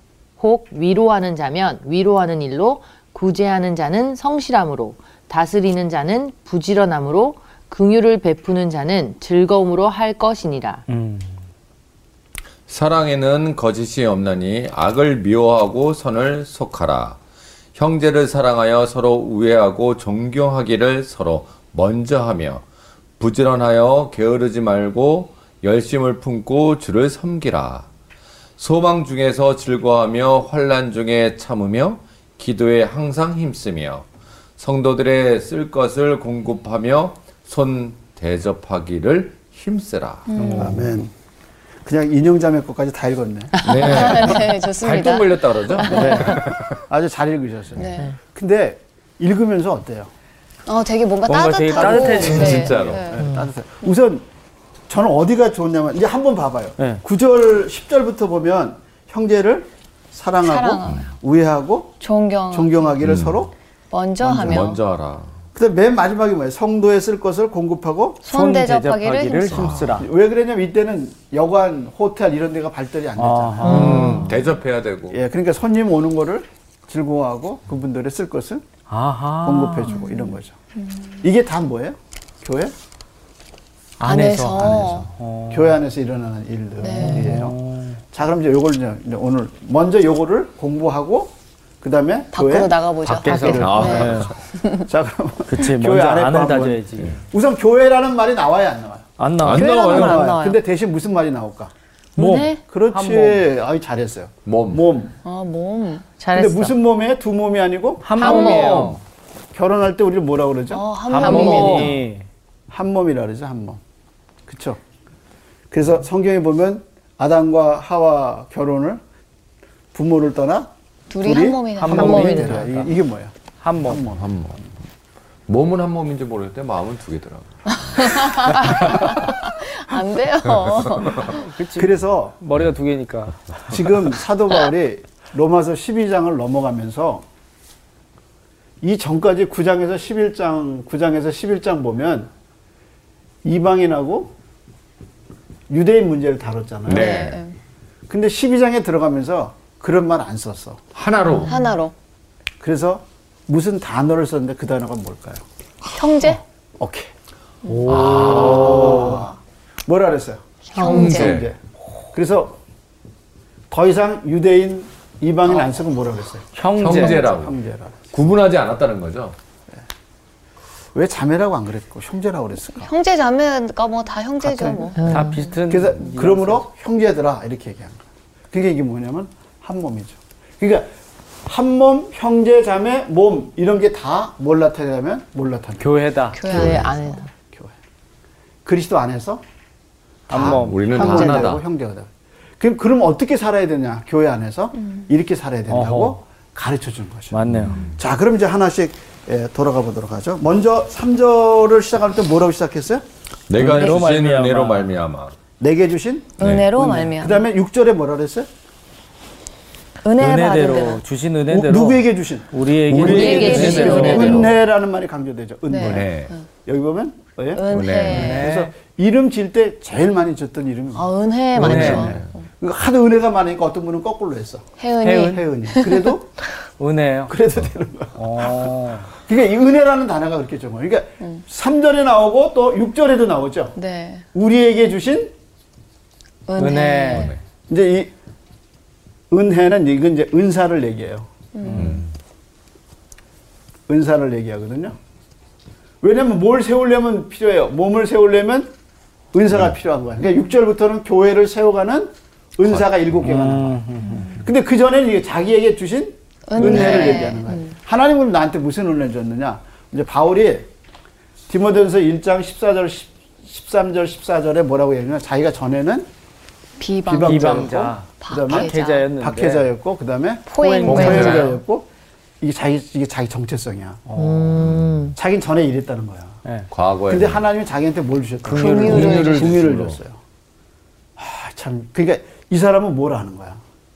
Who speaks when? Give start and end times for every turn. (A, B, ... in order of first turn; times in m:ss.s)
0:00.4-0:10.8 A
0:10.9-0:11.4 B
0:12.7-0:17.2 C
0:17.8-0:22.6 C
0:23.2-0:27.9 C
0:28.6-0:34.1 C
0:34.6-0:40.6 C
0:40.3-0:40.8 D
0:40.4-0:40.9 B
0:40.5-0:41.1 E
0:41.8-0:44.2 E
0:43.6-0:44.0 A
0:43.6-0:46.8 C
0:43.7-0:46.4 D
0:45.9-0:50.1 E
0:47.8-0:48.1 D
0:50.7-0:53.2 D
0:51.2-0:52.7 B
0:51.7-0:54.3 E
0:52.1-0:53.2 C
0:53.2-0:53.5 A
0:54.9-1:02.0 E
1:00.4-1:01.1 D
1:02.0-1:03.0 D
1:02.5-1:03.5 E
1:03.0-1:03.4 C
1:03.9-1:04.8 D
1:04.2-1:05.3 C
1:05.6-1:08.3 E
1:08.2-1:09.8 D
1:08.3-1:10.1 B
1:09.5-1:09.9 C
1:10.0-1:14.2 E
1:13.2-1:14.3 B
1:13.6-1:14.4 A
1:13.6-1:15.2 C
1:15.1-1:18.6 E
1:18.9-1:20.0 B
1:19.4-1:20.6 E
1:19.9-1:21.2 D
1:21.2-1:22.8 E
1:24.0-1:25.8 B
1:24.0-1:25.1 D
1:24.6-1:27.6 E
1:26.8-1:27.4 D
1:27.0-1:28.0 B
1:28.1-1:41.7 E
1:32.3-1:34.8 D
1:33.0-1:34.3 B
1:33.5-1:34.4 C
1:35.5-1:37.2 B
1:39.2-1:39.9 B
1:39.4-1:40.4 C
1:39.5-1:40.6 D
1:42.2-1:43.4 B
1:42.2-1:42.6 D
1:42.7-1:45.2 E
1:44.5-1:44.8 C
1:45.2-1:46.1 D
1:46.2-1:46.8 A
1:46.3-1:48.6 E
1:48.0-1:49.0 B
1:48.2-1:49.0 A
1:48.2-1:48.8 D
1:48.6-1:49.0 C
1:49.5-1:51.7 E
1:50.7-1:52.0 D
1:51.1-1:52.3 B
1:51.2-1:51.9 A
1:52.7-1:53.8 E
1:54.5-1:54.8 E
1:55.7-1:59.0 E
1:59.9-2:00.7 E
2:01.1-2:02.5 D
2:01.2-2:04.3 E
2:01.8-2:02.9 B
2:01.9-2:02.6 A
2:03.6-2:04.0 B
2:04.2-2:04.6 C
2:05.5-2:09.1 C
2:07.9-2:11.5 D
2:10.9-2:11.2 C
2:11.2-2:13.9 B
2:11.8-2:12.4 E
2:13.7-2:17.2 E
2:18.8-2:22.3 E
2:23.4-2:24.3 E
2:25.7-2:27.2 E
2:26.9-2:27.4 C
2:26.9-2:27.6 D
2:28.1-2:30.8 E
2:31.0-2:31.6 C
2:31.3-2:31.6 A
2:31.5-2:31.9 D
2:32.6-2:35.4 E
2:36.0-2:36.4 D
2:36.8-2:37.1 E
2:37.6-2:39.2 B
2:37.9-2:39.1 C
2:37.9-2:40.4 E
2:40.8-2:41.2 A
2:40.8-2:41.4 D
2:40.8-2:41.5 C
2:41.0-2:41.6 E
2:42.1-2:42.6 E
2:43.7-2:48.2 E
2:46.5-2:47.2 B
2:46.8-2:47.6 C
2:48.1-2:49.4 C
2:50.9-2:52.9 E
2:52.8-2:55.1 D
2:54.4-3:00.9 E
2:55.0-2:55.4 A
2:55.1-2:56.7 B
3:01.5-3:05.9 E
3:05.8-3:06.8 B
3:06.3-3:07.2 D
3:06.5-3:07.3 A
3:06.5-3:06.8 E
3:07.5-3:07.8 E
3:08.6-3:09.4 E
3:10.3-3:11.4 B
3:10.3-3:12.1 E
3:10.3-3:11.6 C
3:12.6-3:17.4 E
3:15.7-3:16.2 B
3:17.3-3:17.8 B
3:17.5-3:18.0 C
3:18.0-3:23.0 E
3:23.5-3:25.4 C
3:23.6-3:25.0 B
3:25.6-3:28.5 E
3:26.4-3:27.4 D
3:26.4-3:26.7 C
3:30.0-3:31.0 D
3:30.2-3:34.4 B
3:31.5-3:36.1 E
3:32.9-3:34.6 C
3:33.0-3:34.5 D
3:35.7-3:36.4 D
3:35.8-3:36.3 C
3:36.7-3:44.7 E
3:37.5-3:38.5 D
3:37.7-3:38.4 C
3:38.1-3:38.7 B
3:40.9-3:42.4 D
3:41.6-3:42.1 B
3:41.6-3:42.3 C
3:44.8-3:46.1 D
3:45.0-3:45.4 B
3:45.2-3:46.4 E
3:46.8-3:47.4 B
3:47.3-3:53.8 E
3:48.2-3:49.1 B
3:53.8-3:54.2 D
3:54.3-3:55.3 E
3:56.5-3:57.3 D
3:56.6-3:57.4 B
3:57.1-3:57.4 C
3:57.7-3:58.1 E
3:59.3-4:02.0 E
4:01.6-4:02.0 D
4:01.8-4:02.1 C
4:03.9-4:05.0 E
4:06.0-4:08.7 E
4:09.3-4:13.8 E
4:13.2-4:14.4 B
4:14.3-4:20.7 E
4:16.5-4:17.7 D
4:16.6-4:17.2 B
4:21.5-4:26.1 E
4:26.8-4:29.1 D
4:27.0-4:31.9 E
4:27.2-4:29.7 B
4:30.5-4:31.5 D
4:30.6-4:31.5 B
4:30.9-4:31.5 C
4:32.4-4:34.0 E
4:34.1-4:34.7 B
4:34.2-4:35.2 A
4:34.6-4:34.9 C
4:35.2-4:36.4 E
4:36.7-4:37.4 C
4:37.1-4:40.2 E
4:38.4-4:39.2 B
4:38.5-4:39.6 D
4:38.7-4:40.0 C
4:41.2-4:43.6 E